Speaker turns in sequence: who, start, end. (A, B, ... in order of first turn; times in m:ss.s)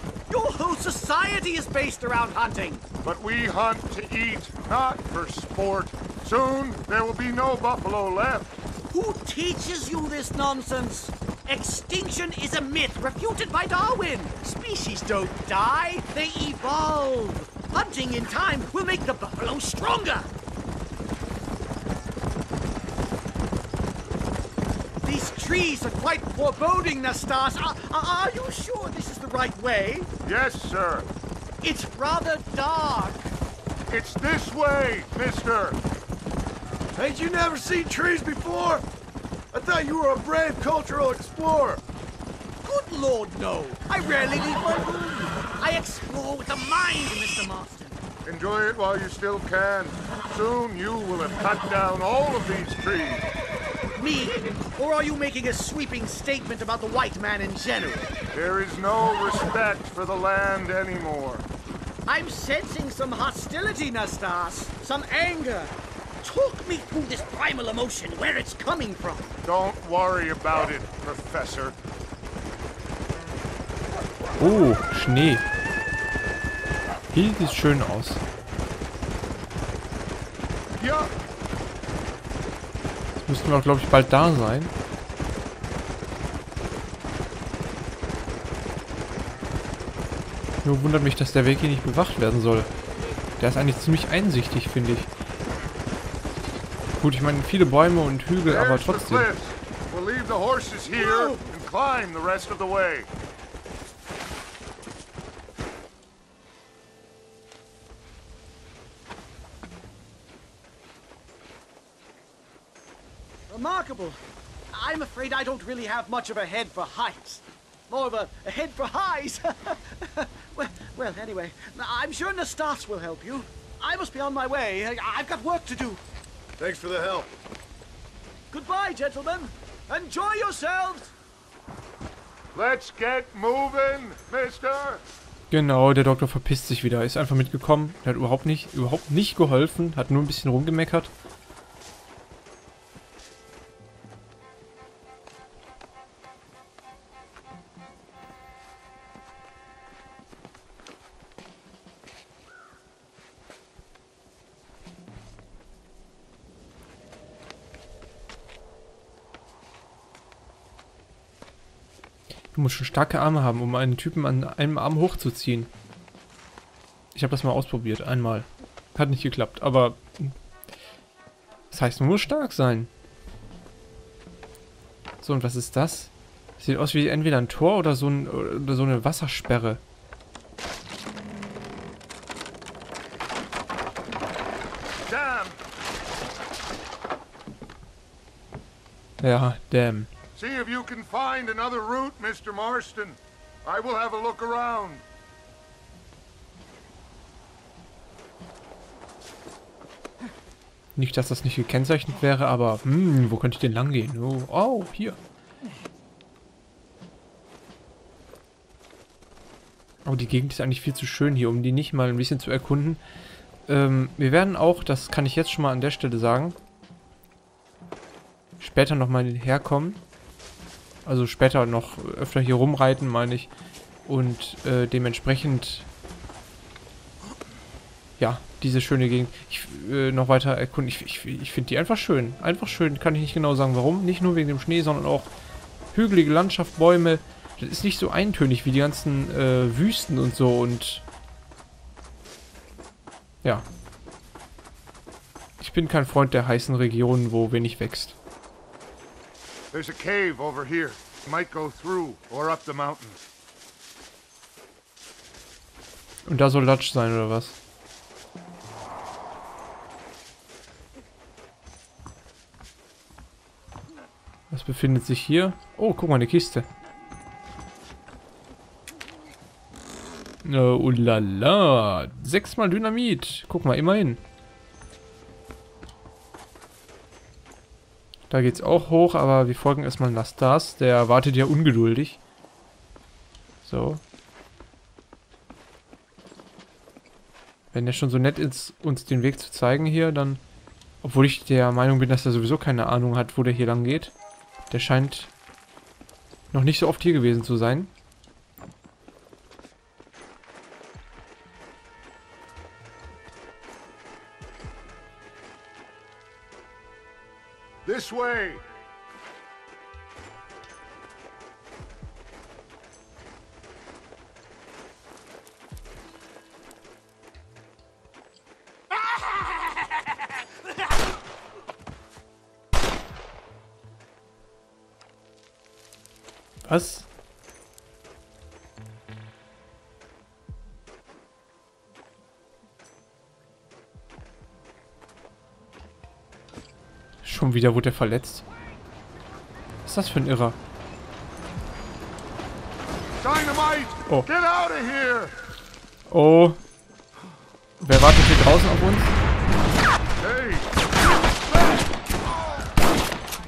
0:00.3-0:02.8 A
0:03.0-0:08.6 B
0:08.9-0:20.3 A
0:25.0-0:30.1 A
0:30.2-0:31.1 B
0:31.6-0:33.3 A
0:33.9-0:35.8 B
0:36.9-0:38.8 C
0:39.5-0:41.8 C
0:42.6-0:48.0 A
0:48.2-0:53.3 B
0:54.0-0:58.1 A
0:58.3-1:01.4 B
1:02.0-1:09.4 A
1:09.4-1:11.8 B
1:14.4-1:15.4 D
1:17.1-1:18.2 D
1:20.8-1:21.1 B
1:23.2-1:24.7 D
1:30.6-1:32.7 D
1:33.4-1:35.1 D
1:37.0-1:39.3 D
1:38.5-1:43.1 B
1:41.0-1:41.4 A
1:53.5-1:54.2 A
1:54.7-2:06.0 A
2:06.6-2:07.3 C
2:08.5-2:11.1 A
2:12.5-2:15.0 B
2:15.5-2:21.1 D
2:42.5-2:45.7 D
2:47.1-2:50.3 D
2:51.7-2:52.9 D
2:55.2-2:59.8 D
3:05.0-3:05.6 B
3:09.2-3:10.1 D
3:10.4-3:15.0 B
3:20.9-3:25.2 D
3:30.0-3:33.0 D
3:33.7-3:36.6 D
3:38.6-3:40.0 D
3:41.0-3:43.5 D
3:44.0-3:45.9 D
3:48.2-3:55.3 D
3:55.9-4:01.0 D
4:05.6-4:08.2 D
4:09.7-4:13.2 B
4:16.2-4:17.6 D
4:24.5-4:26.7 D
4:30.4-4:34.2 D
4:38.3-4:42.2 D
4:43.6-4:44.0 D
4:47.7-4:50.4 D
4:51.0-4:54.1 D
4:54.7-4:55.3 D
4:56.5-4:57.9 D
5:07.8-5:08.6 B
5:26.6-5:27.1 D
5:37.2-5:38.4 D
5:39.8-5:40.6 D
5:43.2-5:45.4 B
5:46.1-5:46.6 D
5:47.8-5:49.2 D
5:50.2-5:50.7 B